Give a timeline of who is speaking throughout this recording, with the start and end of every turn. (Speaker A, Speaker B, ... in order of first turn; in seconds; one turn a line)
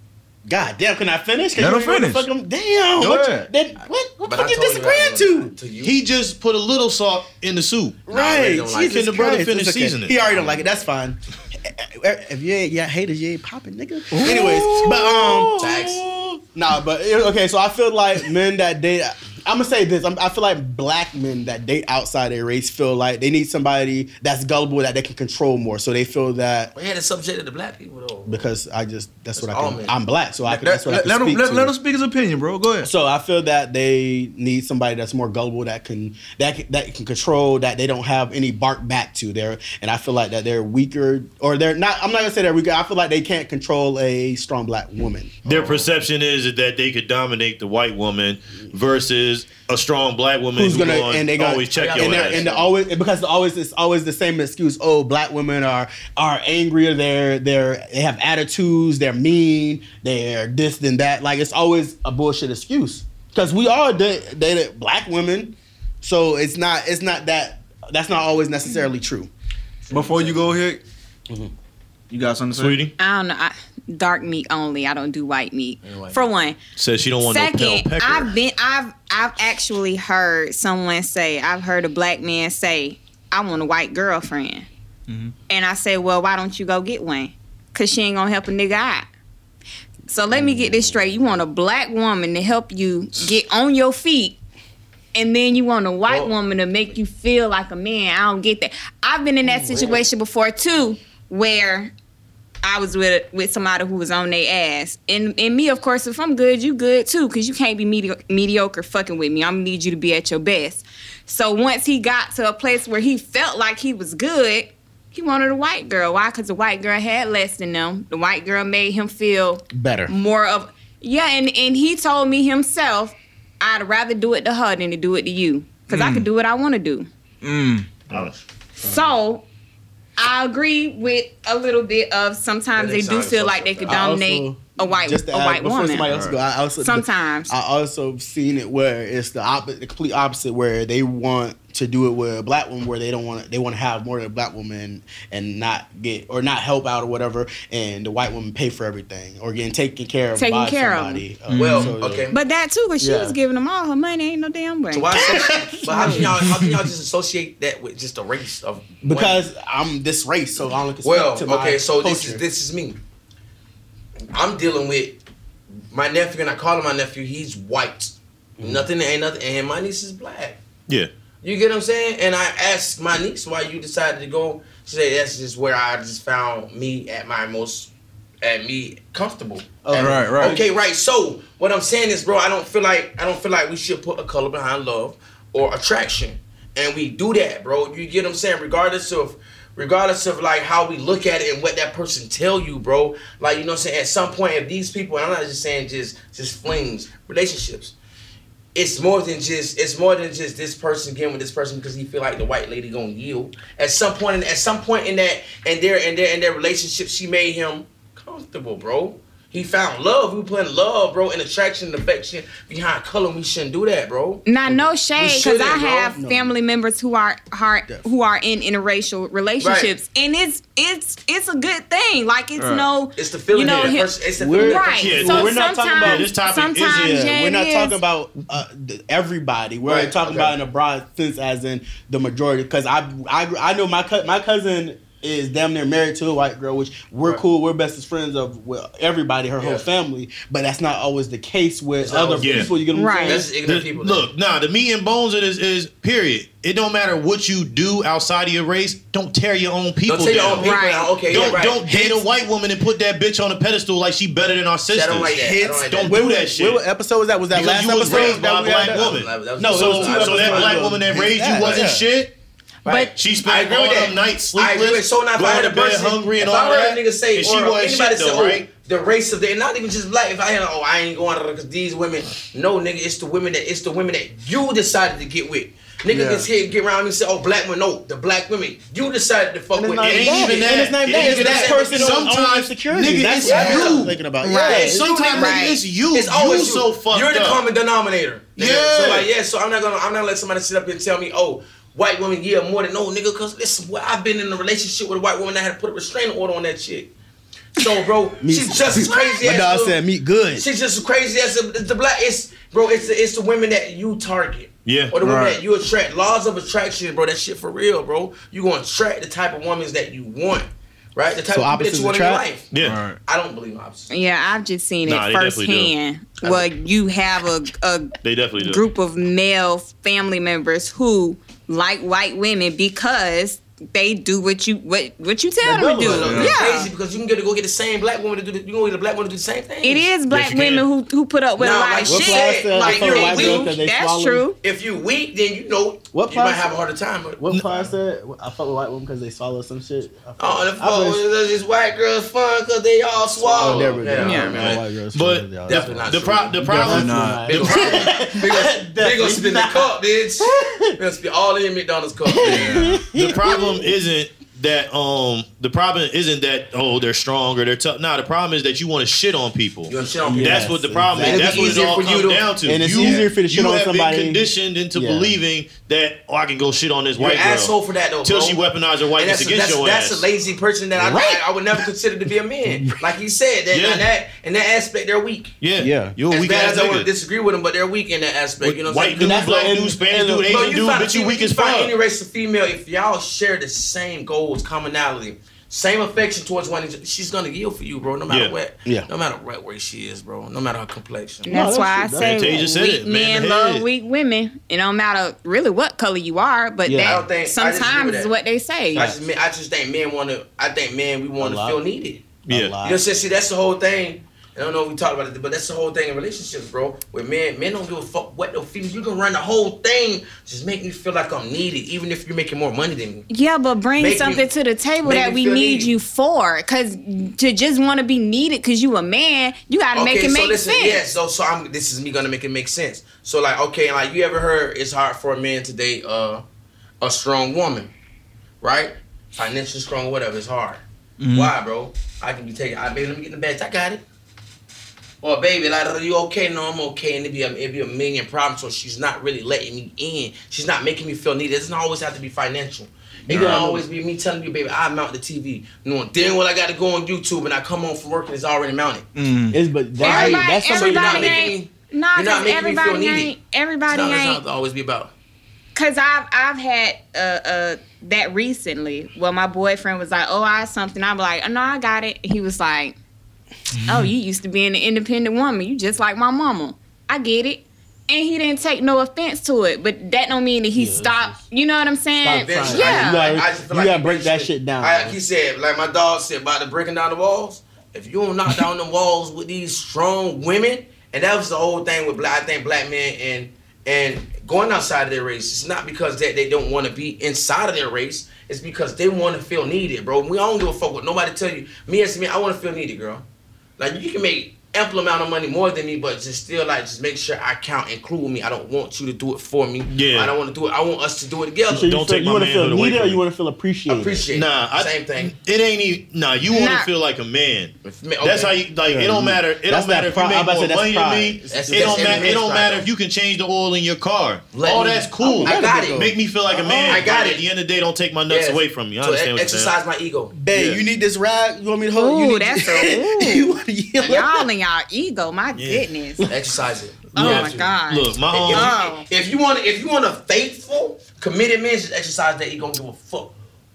Speaker A: 0.5-5.5
Speaker B: 1.6-2.3
Speaker B: 3.0-3.5
Speaker C: 4.3-6.0
Speaker D: 5.8-8.1
Speaker A: 8.1-26.7
Speaker C: 8.1-9.1
Speaker D: 8.7-10.2
Speaker C: 10.2-10.8
Speaker C: 14.2-14.8
Speaker D: 14.2-15.4
Speaker C: 15.5-16.0
Speaker C: 26.7-28.5
Speaker A: 28.3-31.7
Speaker C: 29.4-29.9
Speaker B: 30.4-32.9
Speaker A: 32.8-45.8
Speaker D: 45.4-52.5
Speaker A: 50.5-69.3
Speaker C: 51.7-52.7
Speaker C: 69.8-70.4
Speaker B: 69.9-70.8
Speaker B: 72.1-72.8
Speaker D: 72.5-72.9
Speaker E: 73.0-76.6
Speaker C: 75.8-76.2
Speaker D: 76.8-78.3
Speaker E: 77.2-84.7
Speaker B: 85.1-85.3
Speaker E: 85.5-89.1
Speaker E: 90.1-94.4
Speaker A: 90.4-90.8
Speaker E: 95.1-101.9
Speaker A: 99.4-99.9
Speaker C: 99.7-100.0
Speaker E: 102.6-127.1
Speaker A: 119.7-120.1
Speaker B: 125.9-126.3
Speaker B: 127.4-127.9
Speaker E: 128.8-129.4
Speaker E: 130.2-136.1
Speaker C: 132.8-134.0
Speaker A: 133.9-152.3
Speaker B: 136.1-136.4
Speaker E: 136.8-137.5
Speaker E: 150.3-151.2
Speaker B: 151.5-151.9
Speaker C: 151.5-152.4
Speaker E: 152.3-156.3
Speaker A: 153.0-153.3
Speaker C: 154.9-159.4
Speaker A: 155.1-156.3
Speaker B: 156.1-156.7
Speaker A: 159.0-162.4
Speaker C: 161.0-163.0
Speaker C: 164.3-165.2
Speaker C: 165.9-170.6
Speaker A: 168.6-168.9
Speaker C: 171.4-177.9
Speaker C: 178.4-197.9
Speaker A: 179.8-180.6
Speaker B: 179.9-180.6
Speaker C: 198.7-214.5
Speaker E: 214.4-228.0
Speaker C: 215.2-216.1
Speaker A: 216.0-216.5
Speaker C: 219.6-219.9
Speaker B: 222.6-222.9
Speaker C: 223.2-225.5
Speaker A: 224.4-226.3
Speaker D: 225.0-227.3
Speaker A: 226.8-243.5
Speaker C: 229.8-230.6
Speaker C: 239.6-239.8
Speaker C: 242.0-242.7
Speaker D: 242.4-242.7
Speaker E: 242.9-243.4
Speaker C: 243.2-244.3
Speaker D: 243.6-250.7
Speaker C: 250.1-252.1
Speaker E: 250.6-251.1
Speaker D: 251.3-256.8
Speaker A: 251.9-252.2
Speaker C: 254.9-256.3
Speaker A: 255.3-262.0
Speaker D: 257.5-262.3
Speaker C: 258.0-261.0
Speaker C: 261.5-261.9
Speaker E: 262.8-263.1
Speaker C: 262.8-282.3
Speaker D: 263.1-268.6
Speaker A: 276.1-276.4
Speaker A: 279.7-285.1
Speaker D: 280.0-287.6
Speaker C: 283.4-297.1
Speaker E: 285.3-285.8
Speaker D: 288.6-289.3
Speaker C: 297.7-300.0
Speaker A: 298.4-300.6
Speaker C: 300.5-312.7
Speaker D: 304.8-305.1
Speaker B: 305.2-305.6
Speaker A: 311.5-312.4
Speaker D: 312.7-313.0
Speaker B: 312.8-313.2
Speaker C: 313.2-314.1
Speaker E: 314.1-326.9
Speaker D: 315.0-315.9
Speaker D: 318.2-318.8
Speaker A: 325.6-326.5
Speaker C: 325.8-330.1
Speaker B: 326.2-326.6
Speaker E: 329.8-334.6
Speaker D: 330.3-330.9
Speaker C: 331.6-333.7
Speaker A: 332.0-334.5
Speaker C: 334.6-337.4
Speaker A: 336.1-336.8
Speaker A: 337.4-341.2
Speaker D: 337.5-337.9
Speaker C: 340.4-344.8
Speaker A: 343.4-351.0
Speaker D: 343.6-343.9
Speaker E: 344.2-344.6
Speaker D: 344.5-348.2
Speaker C: 345.6-346.8
Speaker B: 346.7-347.5
Speaker C: 347.4-352.8
Speaker A: 352.3-353.9
Speaker B: 352.4-353.1
Speaker D: 353.1-367.7
Speaker C: 359.9-362.5
Speaker A: 360.2-361.9
Speaker A: 362.6-365.3
Speaker C: 367.2-375.6
Speaker D: 368.2-370.3
Speaker A: 370.9-371.4
Speaker A: 372.6-372.9
Speaker D: 373.7-374.1
Speaker D: 375.6-377.1
Speaker A: 375.8-376.1
Speaker C: 376.3-379.5
Speaker D: 378.6-381.9
Speaker A: 379.1-380.6
Speaker C: 380.5-391.5
Speaker D: 388.3-388.5
Speaker E: 391.4-399.1
Speaker A: 391.5-392.7
Speaker D: 392.2-393.9
Speaker A: 396.8-397.2
Speaker C: 397.0-398.3
Speaker C: 398.9-402.2
Speaker A: 401.4-401.8
Speaker A: 402.4-403.0
Speaker D: 402.5-402.8
Speaker C: 402.8-413.3
Speaker E: 413.3-421.0
Speaker C: 414.0-414.5
Speaker C: 415.0-415.9
Speaker C: 419.9-426.4
Speaker C: 427.0-427.9
Speaker C: 428.6-434.0
Speaker B: 431.2-431.5
Speaker C: 435.2-449.1
Speaker A: 443.3-443.8
Speaker B: 449.1-449.6
Speaker A: 449.5-451.5
Speaker C: 450.0-453.3
Speaker E: 450.0-454.4
Speaker C: 453.9-455.1
Speaker E: 455.7-462.9
Speaker B: 463.8-464.1
Speaker E: 463.8-473.3
Speaker A: 470.7-471.3
Speaker A: 472.2-475.2
Speaker C: 472.4-493.2
Speaker C: 493.8-501.9
Speaker D: 499.9-500.3
Speaker A: 501.7-504.2
Speaker D: 501.8-503.2
Speaker C: 503.9-505.4
Speaker D: 504.3-519.7
Speaker E: 506.4-506.9
Speaker C: 507.8-508.6
Speaker A: 508.8-512.4
Speaker C: 511.5-512.9
Speaker C: 514.5-516.1
Speaker A: 515.2-517.1
Speaker C: 516.9-517.4
Speaker C: 518.3-520.3
Speaker A: 520.3-524.5
Speaker D: 520.5-520.8
Speaker E: 522.0-526.3
Speaker D: 525.5-525.8
Speaker C: 526.3-527.8
Speaker E: 527.1-529.0
Speaker D: 527.1-528.7
Speaker C: 528.3-533.3